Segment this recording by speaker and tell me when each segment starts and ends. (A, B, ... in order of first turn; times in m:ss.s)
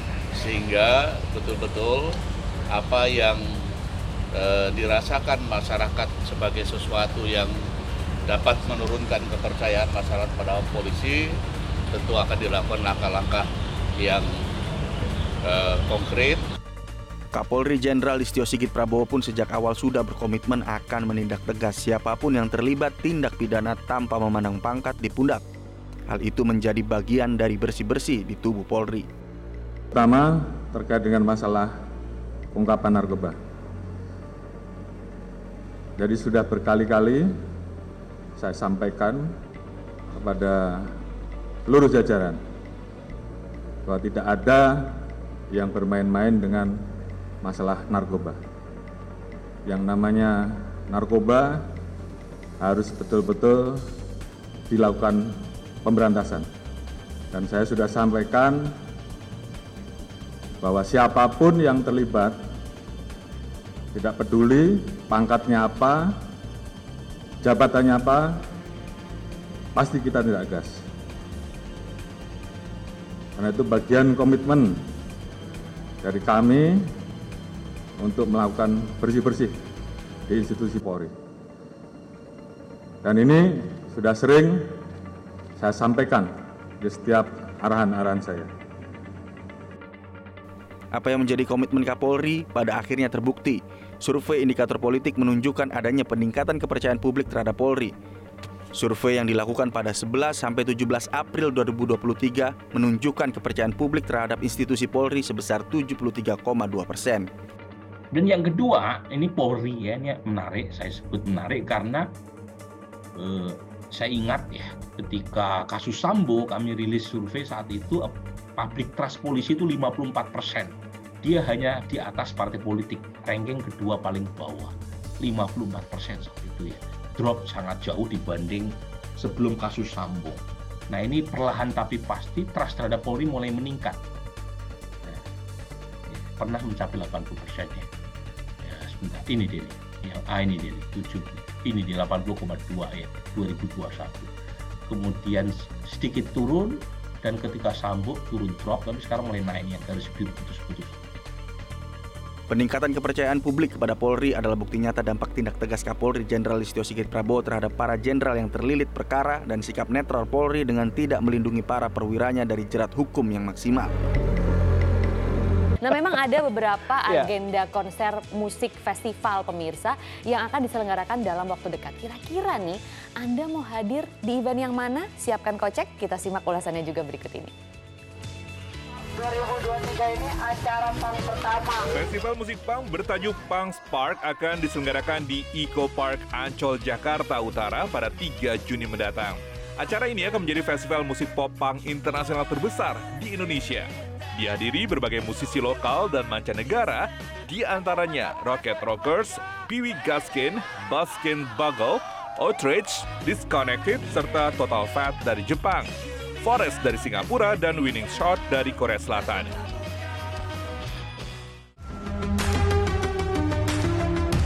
0:00.3-0:02.2 A
0:02.7-0:03.7 A
0:04.3-0:07.6 A
0:08.2-0:11.4 A
0:11.9-0:14.3 A
0:15.4-0:16.4 A
0:17.3-0:25.4 B
0:26.1-0:29.1 B
0:29.9-0:31.7 C
0:32.5-0:33.4 C
0:36.0-0:37.2 C
0:38.4-0:39.3 C
0:40.1-0:40.9 C
0:41.7-0:42.4 C
0:43.9-0:46.8 C
0:47.4-0:48.4 C
0:49.7-0:51.6 C
0:52.6-0:53.8 C
0:54.7-0:55.3 C
0:55.8-0:56.4 C
0:57.3-0:58.7 C
1:00.6-1:02.4 C
1:03.9-1:06.0 C
1:07.4-1:08.3 C
1:09.8-1:10.8 C
1:13.4-1:14.7 C
1:16.0-1:16.8 C
1:18.0-1:19.5 C
1:20.3-1:21.1 C
1:23.0-1:24.6 C
1:25.6-1:26.3 C
1:26.8-1:28.5 C
1:30.9-1:38.0 B
1:38.8-1:47.3 B
1:48.1-1:52.1 D
1:53.2-2:14.0 D
2:16.1-2:17.9 D
2:18.6-2:24.3 D
2:24.9-2:31.0 D
2:32.5-2:43.9 B
2:45.8-2:57.5 E
2:59.1-3:02.0 F
3:01.9-3:29.5 G